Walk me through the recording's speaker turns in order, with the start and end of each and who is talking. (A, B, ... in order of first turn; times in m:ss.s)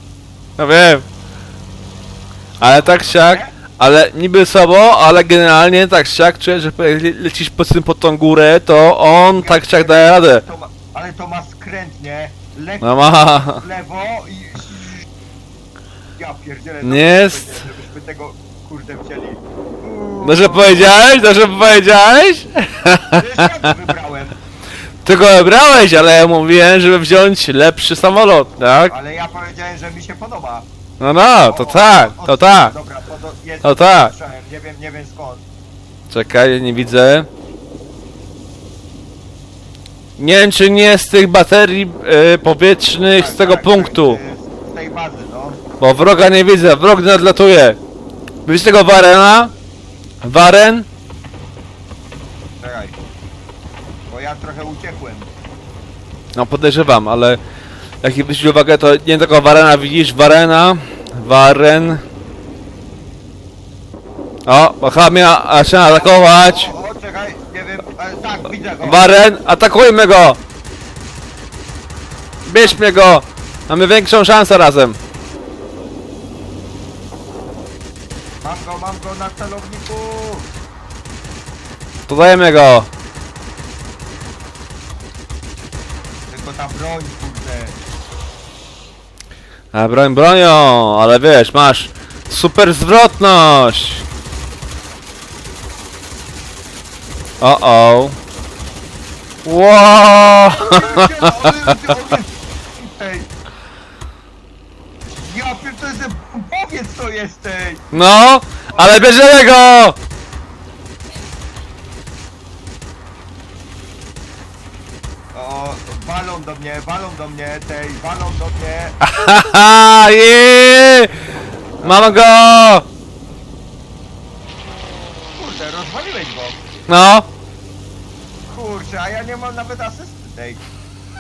0:00.6-0:01.0 A
0:02.6-0:03.5 B
0:02.6-0:10.4 A
0:09.3-0:15.1 B
0:12.8-0:13.6 A
0:16.2-0:20.9 B
0:16.8-0:17.6 A
0:20.2-0:23.7 A
0:23.1-0:24.4 B
0:25.0-0:28.9 A
0:28.9-0:30.7 B
0:31.0-0:32.7 A
0:31.4-0:35.4 B
0:33.6-0:34.1 A
0:36.1-0:37.3 A
0:40.2-0:44.2 A
0:43.1-0:45.6 B
0:45.8-0:47.8 A
0:48.4-0:49.5 A
0:50.2-0:50.9 A
0:52.6-0:53.0 B
0:54.1-0:55.3 B
0:56.4-0:57.4 A
0:58.0-1:02.0 A
1:04.4-1:06.7 A
1:05.6-1:09.2 B
1:08.8-1:10.4 A
1:12.4-1:15.0 A
1:18.4-1:20.5 B
1:22.1-1:22.9 A
1:26.3-1:27.8 B
1:29.7-1:34.0 A
1:37.4-1:38.2 A
1:39.4-1:41.7 A
1:40.4-1:43.3 B
1:45.2-1:47.9 B
1:47.9-1:50.0 A
1:48.7-1:49.2 B
1:55.3-1:59.0 B
1:59.0-2:01.1 A
2:01.8-2:02.2 B
2:01.8-2:02.8 A
2:05.4-2:06.6 B
2:06.9-2:07.3 A
2:08.5-2:10.6 B